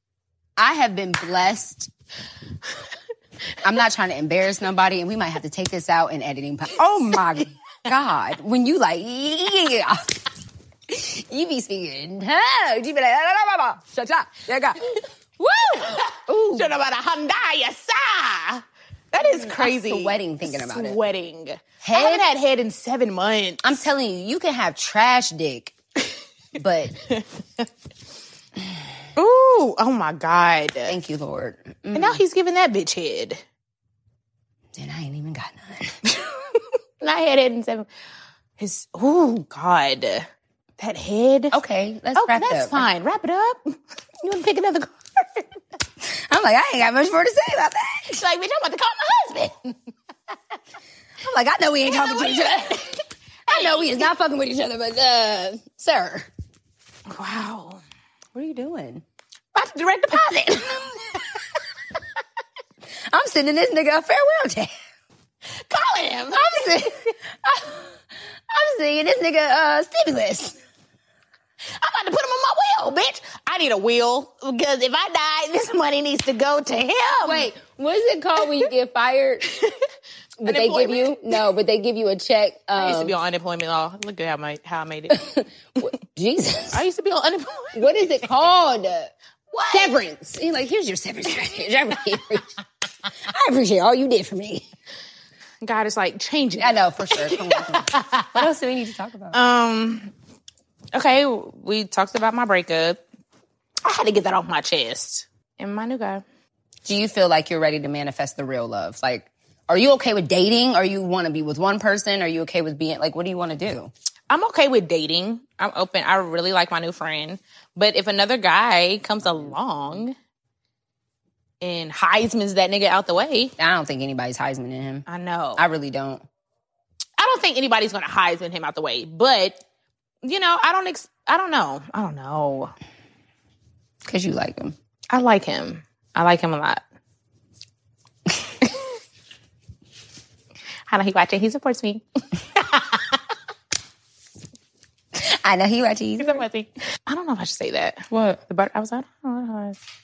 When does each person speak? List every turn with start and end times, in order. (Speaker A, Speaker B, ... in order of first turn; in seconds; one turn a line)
Speaker A: 0.6-1.9
Speaker A: 3.6-10.2
Speaker A: 10.9-14.8
Speaker A: 15.4-16.8
Speaker B: 15.7-23.6
Speaker A: 19.2-21.0
Speaker A: 21.8-22.3
Speaker A: 23.6-25.7
Speaker A: 26.6-26.9
Speaker B: 27.1-27.7
Speaker B: 29.2-31.0
Speaker A: 30.9-32.2
Speaker B: 31.9-33.4
Speaker A: 34.8-36.0
Speaker B: 36.1-37.9
Speaker B: 38.6-40.3
Speaker B: 40.8-41.6
Speaker A: 41.5-42.9
Speaker B: 42.1-45.5
Speaker A: 46.0-48.2
Speaker B: 48.1-49.8
Speaker A: 51.2-56.3
Speaker B: 51.9-52.9
Speaker B: 53.5-54.0
Speaker B: 57.1-57.8
Speaker A: 58.3-59.0
Speaker B: 59.5-61.2
Speaker A: 63.1-64.7
Speaker B: 65.6-67.1
Speaker A: 66.3-70.6
Speaker B: 71.8-77.5
Speaker A: 77.2-79.5
Speaker B: 79.5-79.8
Speaker A: 80.4-83.2
Speaker B: 80.5-81.1
Speaker B: 82.8-85.2
Speaker A: 85.1-86.8
Speaker B: 86.7-88.3
Speaker A: 87.8-89.1
Speaker B: 89.5-90.0
Speaker A: 89.7-92.5
Speaker A: 93.2-94.7
Speaker B: 95.6-98.5
Speaker A: 96.6-99.4
Speaker B: 99.3-100.1
Speaker B: 100.9-103.0
Speaker B: 103.8-106.2
Speaker A: 106.9-113.9
Speaker B: 114.3-120.2
Speaker A: 119.2-119.6
Speaker B: 121.6-123.5
Speaker A: 123.6-125.1
Speaker B: 125.1-125.6
Speaker A: 125.6-126.2
Speaker B: 127.2-129.6
Speaker B: 130.2-132.7
Speaker A: 134.1-134.8
Speaker B: 135.1-136.8
Speaker B: 140.9-143.2
Speaker A: 145.1-146.4
Speaker B: 146.2-149.8
Speaker A: 148.1-148.4